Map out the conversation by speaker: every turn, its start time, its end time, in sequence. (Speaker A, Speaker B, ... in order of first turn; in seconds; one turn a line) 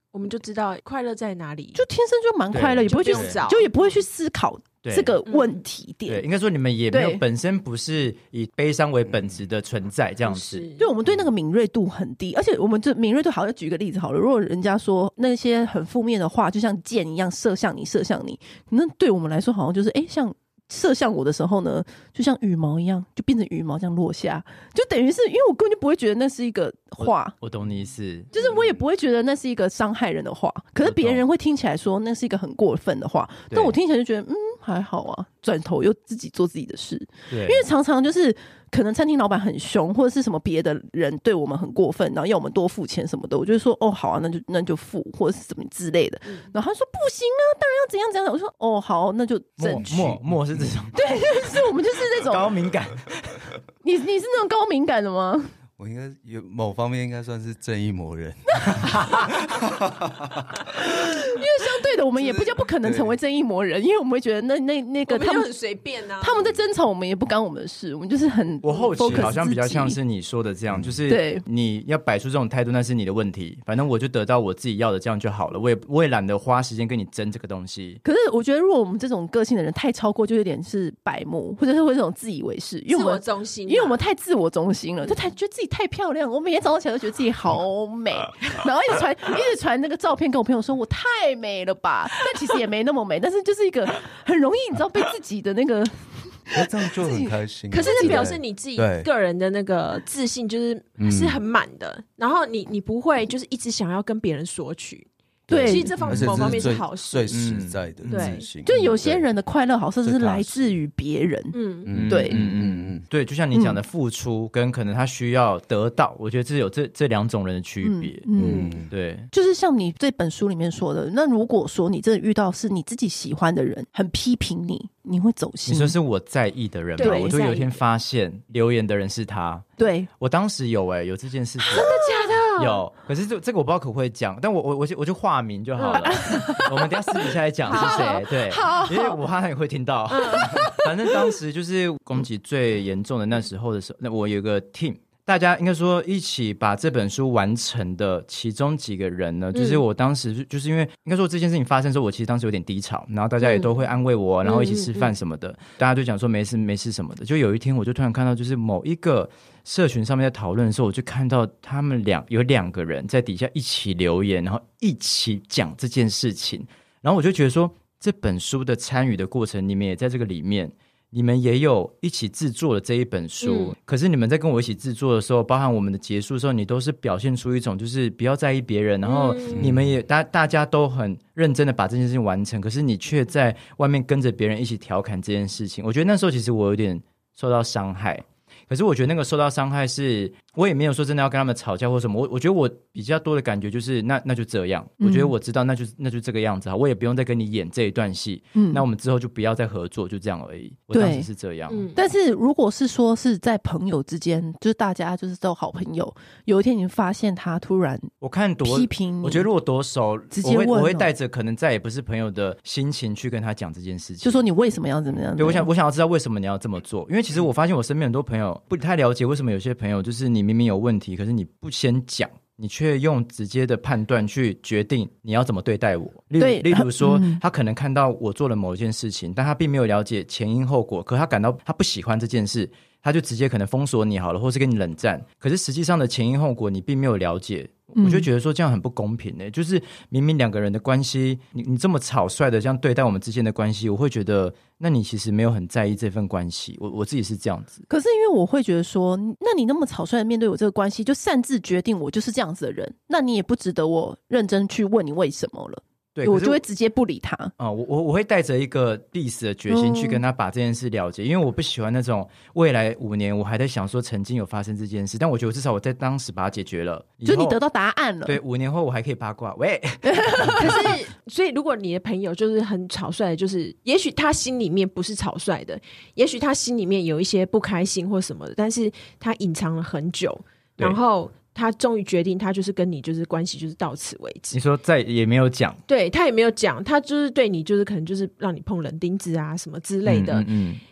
Speaker A: 0.1-1.8
Speaker B: 1.7-6.2
Speaker C: 2.5-3.3
Speaker A: 2.9-3.7
Speaker C: 4.8-5.2
Speaker A: 5.2-5.6
Speaker C: 6.1-10.6
Speaker B: 6.9-7.2
Speaker A: 10.2-10.9
Speaker B: 10.8-27.4
Speaker C: 27.0-28.3
Speaker A: 28.3-28.6
Speaker B: 28.3-50.0
Speaker C: 30.8-31.2
Speaker C: 37.3-37.6
Speaker C: 49.6-51.6
Speaker D: 49.8-50.7
Speaker B: 50.9-52.5
Speaker C: 52.1-53.5
Speaker B: 53.8-55.5
Speaker D: 55.8-61.3
Speaker B: 60.7-65.5
Speaker D: 62.2-63.1
Speaker A: 65.1-66.5
Speaker B: 66.2-70.0
Speaker C: 68.6-78.0
Speaker B: 71.0-71.4
Speaker B: 78.0-98.3
Speaker A: 82.9-84.0
Speaker D: 96.5-99.1
Speaker A: 97.7-105.1
Speaker D: 101.0-101.4
Speaker D: 105.5-109.2
Speaker B: 105.5-105.9
Speaker A: 105.6-107.4
Speaker C: 106.1-106.6
Speaker C: 107.3-108.2
Speaker A: 108.1-108.5
Speaker B: 108.6-111.5
Speaker C: 110.0-110.5
Speaker A: 111.5-111.9
Speaker D: 111.9-113.0
Speaker C: 111.9-118.3
Speaker B: 112.1-112.4
Speaker B: 113.5-113.8
Speaker B: 117.8-118.8
Speaker D: 118.3-118.9
Speaker A: 118.4-118.8
Speaker C: 118.9-119.3
Speaker B: 119.3-126.0
Speaker C: 125.7-129.7
Speaker A: 127.0-127.8
Speaker B: 127.0-127.3
Speaker B: 129.8-130.1
Speaker C: 130.2-131.9
Speaker B: 131.6-132.4
Speaker A: 131.7-132.8
Speaker C: 132.6-201.9
Speaker A: 135.8-136.7
Speaker B: 136.0-136.7
Speaker A: 137.7-138.2
Speaker B: 137.7-139.2
Speaker A: 140.1-140.8
Speaker A: 149.5-149.8
Speaker A: 153.4-153.7
Speaker A: 154.4-155.1
Speaker A: 173.4-173.7
Speaker A: 179.0-179.7
Speaker D: 179.6-179.9
Speaker B: 195.0-195.3
Speaker B: 198.5-198.8
Speaker B: 200.9-201.3
Speaker A: 201.7-202.0
Speaker B: 201.9-208.1
Speaker C: 208.2-214.4
Speaker B: 208.6-209.5
Speaker B: 210.3-211.1
Speaker B: 214.2-215.7
Speaker C: 215.4-247.8
Speaker B: 226.4-227.4
Speaker B: 238.0-238.3
Speaker B: 247.9-257.5
Speaker C: 256.1-256.6
Speaker C: 257.6-267.6
Speaker B: 259.7-260.2
Speaker B: 267.2-268.4
Speaker C: 268.2-270.8
Speaker B: 270.0-270.9
Speaker A: 270.5-284.6
Speaker C: 284.5-285.8
Speaker A: 285.9-290.5
Speaker C: 290.0-290.8